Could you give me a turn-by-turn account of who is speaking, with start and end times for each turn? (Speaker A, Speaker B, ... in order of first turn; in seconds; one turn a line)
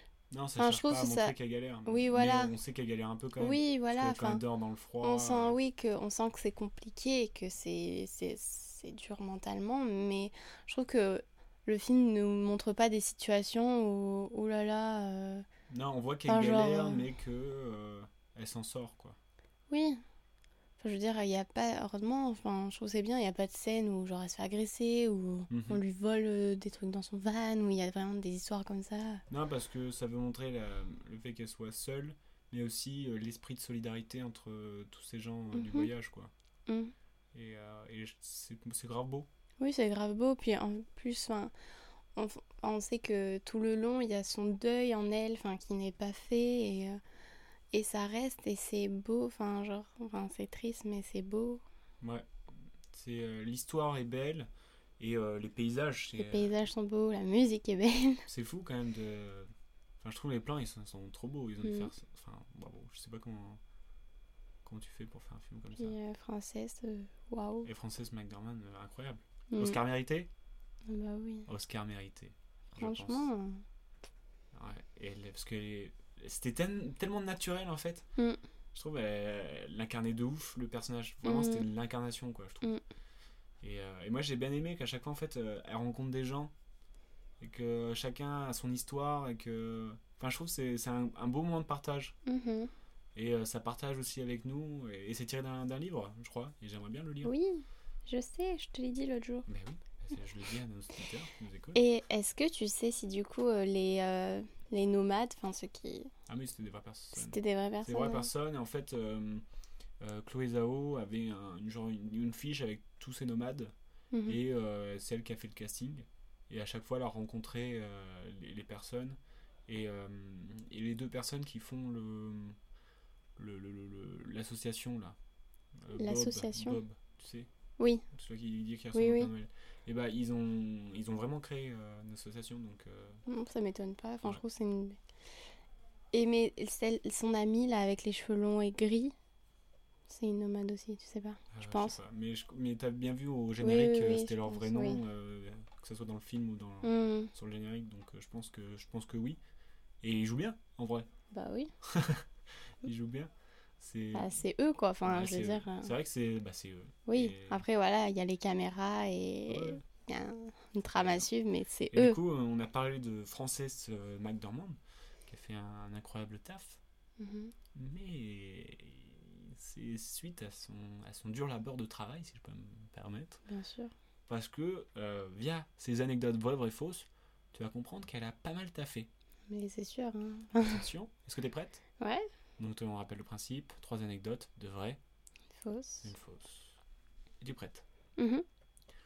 Speaker A: 0.3-5.6
Speaker B: 0.6-1.3
Speaker B: 1.9-2.5
Speaker B: 3.4-4.4
Speaker B: 5.0-15.4
Speaker A: 15.7-19.2
Speaker B: 16.3-17.0
Speaker B: 19.7-20.0
Speaker B: 20.8-29.2
Speaker A: 25.5-25.8
Speaker A: 29.3-36.3
Speaker B: 35.5-35.9
Speaker A: 37.3-39.3
Speaker B: 39.6-41.5
Speaker B: 42.2-47.0
Speaker B: 47.7-51.6
Speaker A: 52.0-52.3
Speaker A: 52.9-56.5
Speaker B: 56.2-58.2
Speaker A: 58.3-59.5
Speaker A: 60.0-63.6
Speaker B: 61.6-61.9
Speaker A: 64.6-66.0
Speaker B: 65.8-67.7
Speaker A: 67.7-70.3
Speaker B: 69.5-69.8
Speaker B: 70.9-71.5
Speaker A: 71.5-73.3
Speaker B: 72.8-73.6
Speaker A: 74.5-78.1
Speaker A: 78.7-82.7
Speaker B: 81.2-81.7
Speaker A: 83.6-86.5
Speaker A: 87.4-92.2
Speaker B: 92.3-92.7
Speaker A: 93.2-97.3
Speaker B: 97.2-99.5
Speaker A: 99.5-101.8
Speaker B: 101.8-106.1
Speaker A: 106.3-109.4
Speaker B: 107.2-108.3
Speaker A: 110.0-113.7
Speaker B: 114.1-114.4
Speaker A: 114.3-122.6
Speaker A: 123.4-125.2
Speaker A: 125.8-127.5
Speaker B: 126.0-126.8
Speaker B: 127.8-128.1
Speaker A: 128.1-133.2
Speaker B: 128.9-129.3
Speaker B: 133.3-135.0
Speaker B: 136.1-139.1
Speaker B: 140.1-142.0
Speaker A: 141.5-149.4
Speaker B: 143.6-145.0
Speaker B: 146.8-147.3
Speaker A: 150.0-151.1
Speaker B: 151.3-151.7
Speaker A: 151.8-152.2
Speaker A: 152.8-154.4
Speaker B: 154.1-155.9
Speaker A: 155.1-157.6
Speaker B: 157.1-162.2
Speaker A: 159.5-159.8
Speaker A: 160.9-161.3
Speaker A: 161.9-166.8
Speaker B: 167.2-167.5
Speaker A: 167.8-173.4
Speaker B: 173.5-173.9
Speaker A: 174.3-179.1
Speaker B: 179.5-180.8
Speaker A: 180.6-181.8
Speaker A: 182.6-185.0
Speaker B: 185.6-186.1
Speaker A: 186.0-186.8
Speaker A: 187.4-187.8
Speaker B: 188.2-188.4